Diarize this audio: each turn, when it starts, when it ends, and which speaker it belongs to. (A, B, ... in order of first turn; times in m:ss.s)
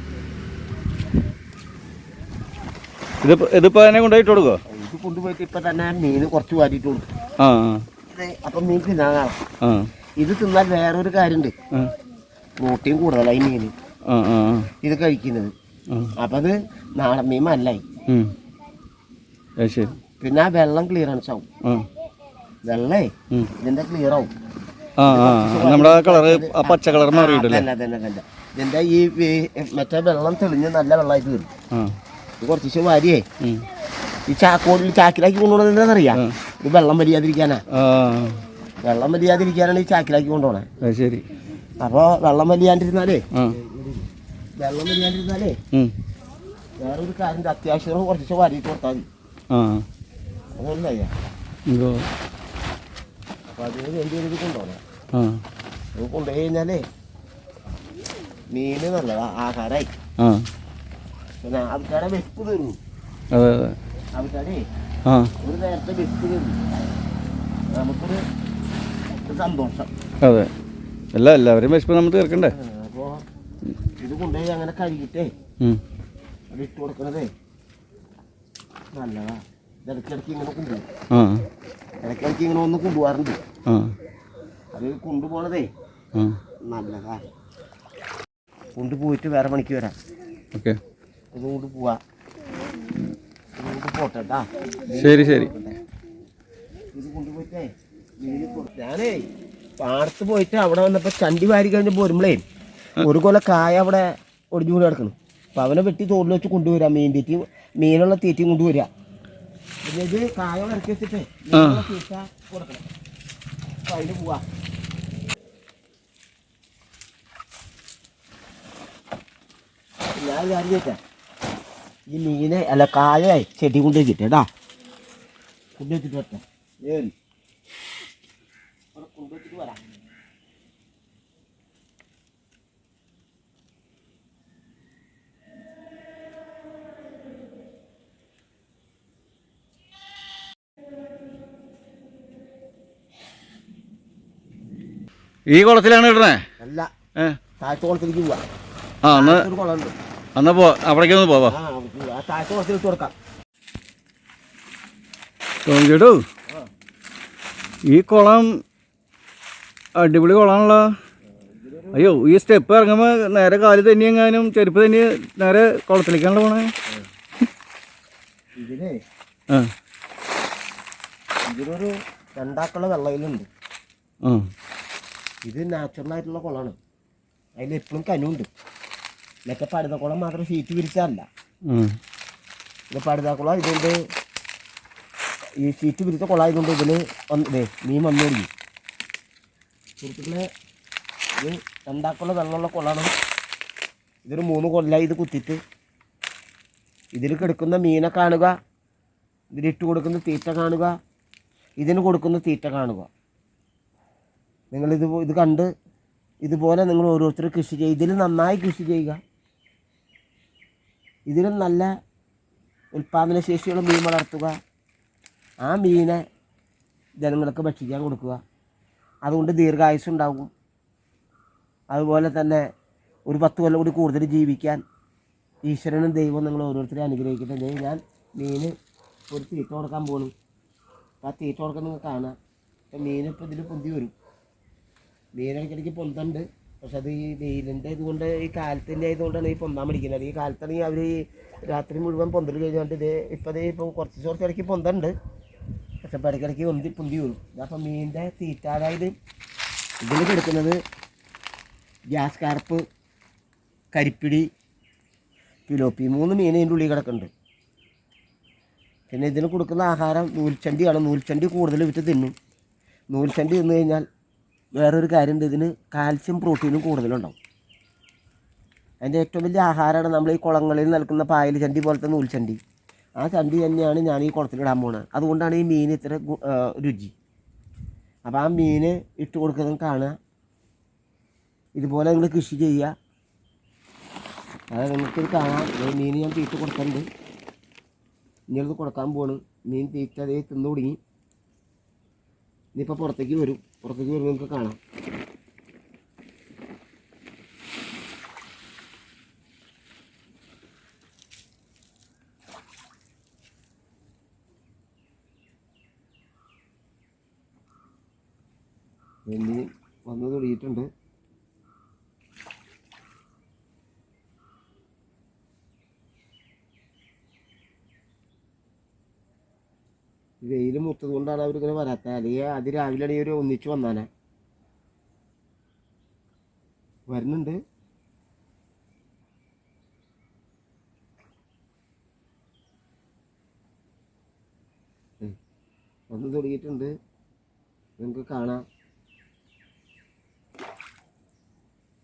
0:03.2-0:04.6 A
0:04.7-0:07.1 B
0:07.4-0:07.8 A
0:08.1-0:09.4 B
0:09.6-0:09.9 A
0:10.2-0:11.6 B
0:12.6-0:13.7 B
0:14.1-0:14.7 A
0:14.8-0:15.5 B
0:15.9-0:16.2 A
0:16.2-0:17.9 B
0:18.1-0:18.4 A
0:19.6-0:20.0 A
0:20.2-0:21.5 B
0:21.6-0:21.9 A
0:22.6-0:24.3 B
0:25.0-0:27.7 A
0:25.1-0:31.5 B
0:32.4-0:33.2 B
0:33.4-0:33.7 A
0:34.3-0:37.6 B
0:37.7-0:38.4 A
0:38.8-0:40.7 B
0:40.8-0:41.3 A
0:41.8-0:45.6 B
0:46.8-0:49.1 B
0:49.5-0:49.9 A
0:50.6-0:51.1 B
0:51.7-0:52.1 A
0:53.5-0:54.8 B
0:55.1-0:55.4 A
0:56.0-0:56.8 B
0:58.5-0:59.9 B
1:00.2-1:00.5 A
1:01.4-1:02.8 B
1:03.3-1:03.8 A
1:04.2-1:04.6 B
1:05.1-1:05.3 A
1:05.4-1:06.6 B
1:07.7-1:08.2 B
1:09.2-1:09.9 B
1:10.2-1:10.5 A
1:11.1-1:12.5 A
1:12.5-1:13.2 B
1:14.0-1:15.3 B
1:16.5-1:17.3 B
1:18.9-1:20.8 B
1:21.1-1:21.5 A
1:22.0-1:23.4 B
1:23.7-1:24.0 A
1:24.7-1:25.7 B
1:26.7-1:27.3 B
1:28.8-1:29.9 B
1:30.5-1:30.8 A
1:31.3-1:32.0 B
1:33.6-1:35.8 B
1:34.9-1:35.5 A
1:36.9-1:39.3 B
1:39.8-1:42.4 B
1:43.0-1:48.9 B
1:49.8-1:52.9 B
1:51.5-1:51.8 A
1:53.8-1:54.4 B
2:00.2-2:01.0 B
2:02.1-2:04.5 B
2:05.8-2:07.1 B
2:09.0-2:09.8 B
2:25.5-2:26.4 A
2:26.6-2:26.9 B
2:27.6-2:28.4 B
2:29.0-2:29.5 A
2:29.1-2:29.9 B
2:30.4-2:31.6 A
2:31.5-2:33.1 B
2:35.6-2:36.2 A
2:37.9-2:38.6 A
2:40.0-2:40.9 A
2:41.5-2:42.1 B
2:41.9-2:46.7 A
2:48.6-2:49.0 B
2:51.5-2:53.5 B
2:54.2-2:54.5 A
2:55.5-2:56.8 B
2:57.6-2:58.5 B
2:59.5-3:01.3 B
3:01.7-3:02.0 A
3:02.9-3:04.0 B
3:05.6-3:08.5 B
3:10.0-3:10.4 B
3:11.4-3:13.1 B
3:14.2-3:15.6 B
3:17.2-3:18.6 B
3:19.5-3:21.0 B
3:21.8-3:23.1 B
3:24.7-3:25.7 B
3:26.4-3:29.2 B
3:31.3-3:31.9 B
3:32.9-3:34.5 B
3:35.6-3:36.2 B
3:37.2-3:38.4 B
3:39.2-3:40.5 B
3:41.9-3:42.6 B
3:43.3-3:44.8 B
3:45.7-3:48.7 B
3:49.3-3:50.3 B
3:51.2-3:52.4 B
3:52.9-3:54.1 B
3:55.4-4:05.1 B
4:06.0-4:09.2 B
4:10.0-4:10.8 B
4:12.1-4:12.8 B
4:13.9-4:14.5 B
4:15.7-4:17.3 B
4:19.1-4:22.3 B
4:23.1-4:24.0 B
4:24.8-4:27.4 B
4:29.0-4:32.6 B
4:33.2-4:37.1 B
4:38.2-4:40.2 B
4:41.8-4:42.9 B
4:44.7-4:47.1 B
4:48.5-4:51.0 B
4:52.8-4:54.8 B
5:09.3-5:10.9 B
5:20.4-5:24.1 B
5:27.1-5:27.6 B
5:36.1-5:36.9 B
5:38.0-5:38.6 B